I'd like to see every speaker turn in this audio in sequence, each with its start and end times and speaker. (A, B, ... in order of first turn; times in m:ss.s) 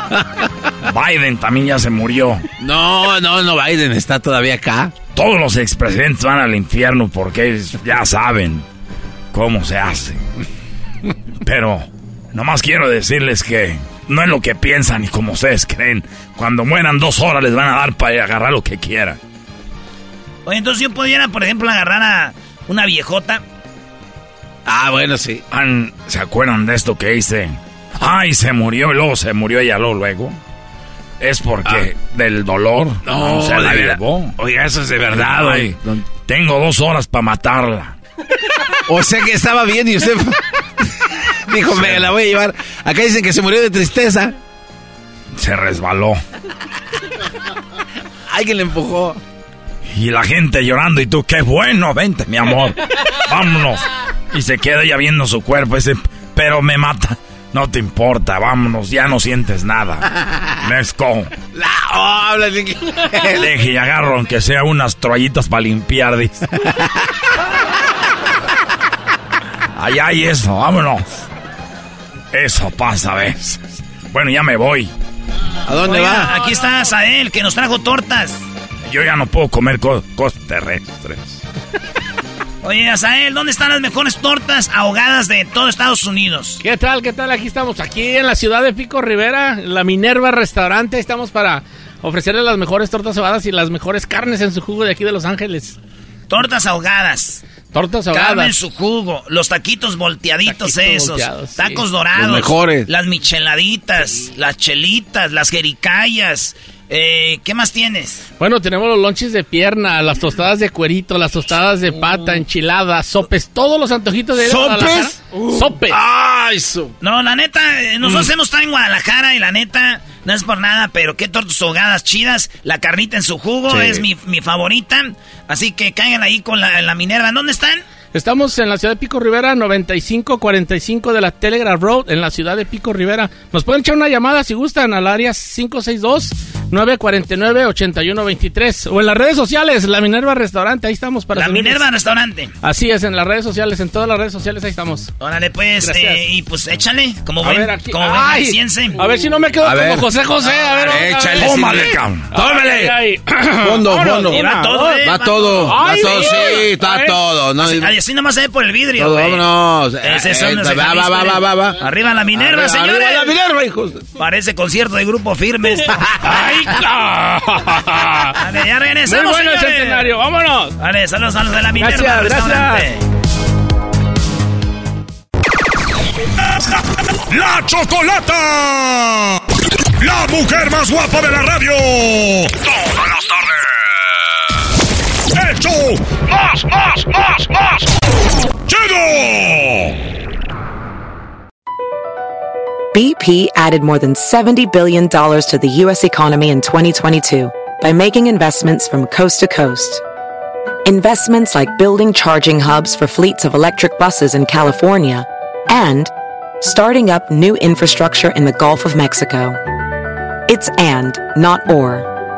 0:00.8-0:02.4 A
0:02.6-0:04.9 B
0:05.1-0:08.6 A
0:09.3-0:10.2 A
0:11.4-0:19.2 A
0:20.4-0:23.4 C
0:24.6-0:25.4 B
0:25.5-0:30.4 A
0:31.2-0:34.3 A
0:33.0-0:36.0 B
0:35.1-0:35.7 A
0:36.2-0:38.0 A
0:38.9-0:40.4 B
0:41.5-0:44.4 B
0:41.7-0:42.1 A
0:45.4-0:46.2 A
0:48.3-0:49.2 B
0:49.9-1:00.1 A
1:00.6-1:01.3 A
1:01.5-1:03.5 B
1:03.3-1:06.4 A
1:09.7-1:11.2 A
1:12.3-1:14.9 A
1:15.6-1:16.3 B
1:15.8-1:18.4 C
1:18.8-1:21.4 A
1:22.6-1:26.6 C
1:26.6-1:35.8 D
1:36.3-1:37.4 C
1:37.7-1:38.5 D
1:38.1-1:48.2 C
1:40.4-1:41.8 D
1:42.1-1:42.9 B
1:48.4-1:55.9 D
1:54.4-1:56.9 B
1:57.0-2:07.8 C
2:03.7-2:04.0 B
2:08.1-2:21.8 D
2:21.3-2:22.5 C
2:22.6-2:25.1 D
2:25.2-2:29.0 C
2:25.8-2:26.2 D
2:27.4-2:31.8 D
2:29.6-2:32.9 B
2:30.6-2:31.0 C
2:31.3-2:32.3 A
2:32.3-2:37.2 D
2:33.6-2:37.9 B
2:34.3-2:36.3 C
2:37.6-2:39.4 C
2:39.0-2:41.8 B
2:40.0-2:43.3 C
2:42.3-2:44.1 B
2:44.2-2:46.1 C
2:46.0-2:46.3 B
2:46.2-2:48.4 D
2:48.3-2:50.1 C
2:49.0-2:50.7 D
2:50.8-2:53.0 C
2:51.8-2:52.9 D
2:57.3-2:59.4 E
3:00.0-3:03.5 E
3:05.3-3:07.9 E
3:08.7-3:10.0 E
3:12.9-3:20.0 F
3:20.8-3:29.6 F
3:30.5-3:32.1 F